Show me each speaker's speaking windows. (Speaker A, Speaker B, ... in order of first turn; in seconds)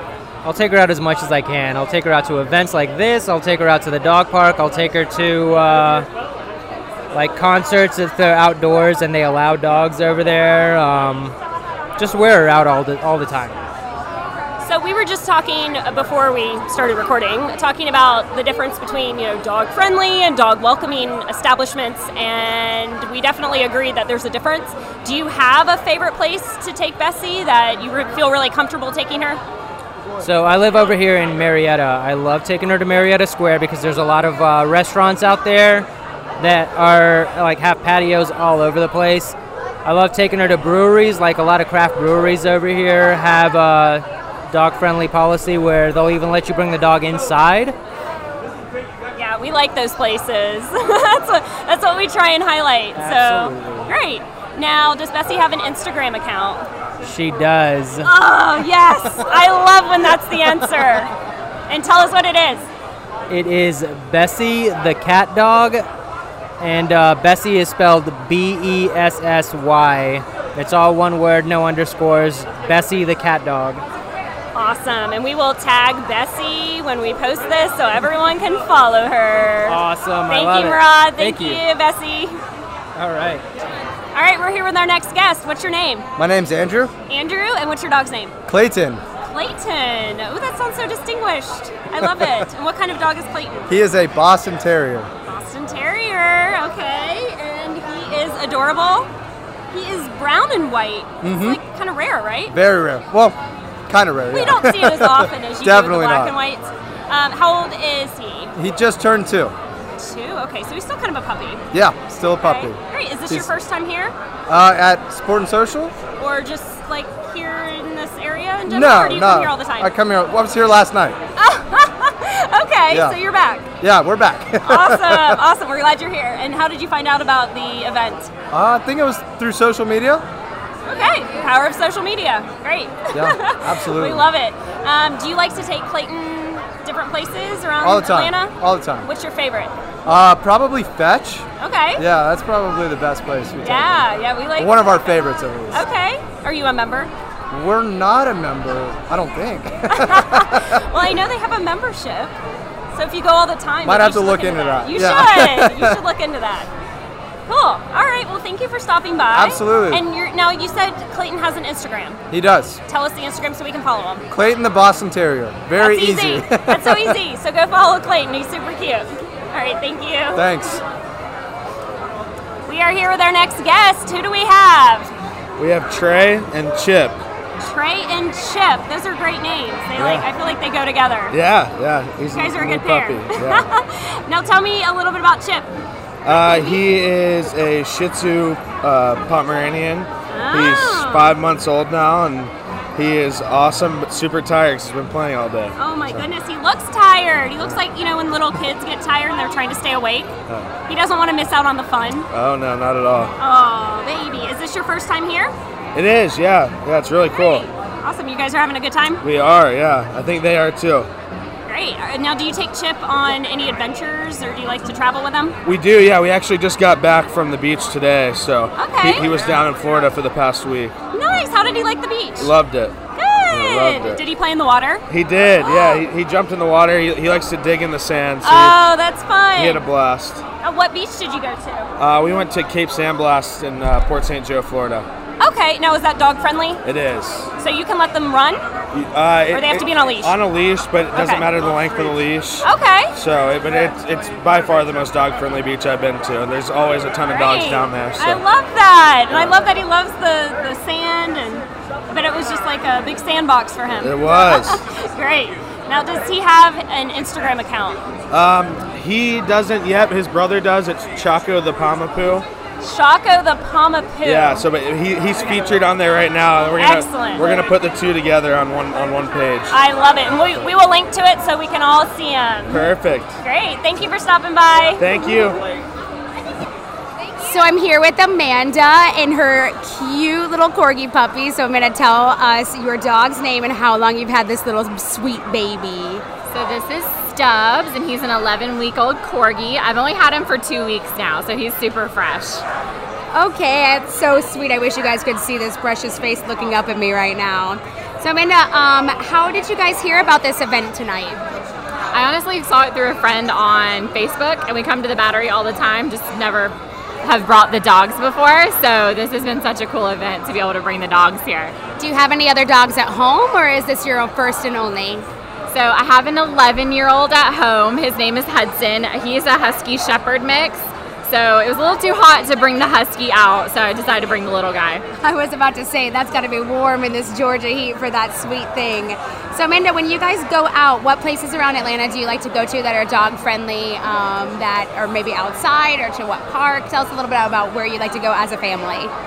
Speaker A: 0.4-6.0, 7.1-11.3, 12.0-13.6, 30.2-35.9, 36.4-47.8, 52.9-53.9, 57.0-58.1, 63.3-65.8, 66.6-73.8, 79.7-81.6, 83.0-83.4
Speaker B: 14.6-29.4, 49.1-56.7, 58.0-61.1, 61.7-62.7, 74.5-82.4, 84.1-86.1, 87.1-88.3, 89.2-93.7, 95.2-99.1, 99.7-102.5, 104.3-108.5, 110.0-111.6, 112.4-114.1, 116.2-119.9, 121.4-123.7, 124.6-128.3, 130.8-139.7, 141.6-142.0, 143.6-144.9, 145.7-147.1, 149.9-152.3, 152.9-156.7, 157.5-162.2, 162.9-164.2, 165.8-170.4, 172.7-175.1, 177.6-181.3, 182.3-185.7, 186.3-186.8, 190.3-191.4, 195.8-200.3, 200.9-202.3, 203.4-205.5, 207.3-209.2, 211.7-215.6, 218.8-219.3, 221.1-222.5, 223.1-225.0, 225.6-226.0, 228.4-229.8, 230.6-231.9, 235.4-236.8, 237.6-238.6, 239.5-240.3, 241.1-241.4, 242.6-243.1, 247.3-258.0, 262.8-264.6, 266.8-267.5, 269.7-272.9, 273.4-275.0
Speaker C: 86.2-86.9, 88.5-89.0, 93.7-95.1, 101.2-101.6, 102.5-103.3, 103.9-106.3, 108.5-109.5, 111.7-113.5, 114.5-115.9, 118.7-121.2, 122.9-123.2, 123.8-125.4, 128.5-130.2, 133.1-134.2, 137.8-139.1, 140.1-145.8, 147.5-150.8, 153.8-156.0, 159.3-160.0, 162.3-162.8, 164.3-167.2, 170.3-170.8
Speaker D: 175.6-177.2, 180.0-180.2, 181.3-183.7, 186.2-196.2, 202.3-203.3, 205.9-207.7, 209.2-211.1, 215.6-220.9, 222.4-222.9, 223.5-224.2, 225.1-228.8, 229.6-230.4, 232.0-235.1, 236.8-237.5, 238.9-248.4, 249.3-249.6, 254.0-254.8, 258.3-262.4, 264.2-269.8, 272.7-273.3, 275.0-275.6
Speaker E: 277.4-286.2, 293.3-301.4, 312.0-315.2, 325.2-339.1
Speaker F: 286.5-292.6, 302.1-311.7, 315.7-325.0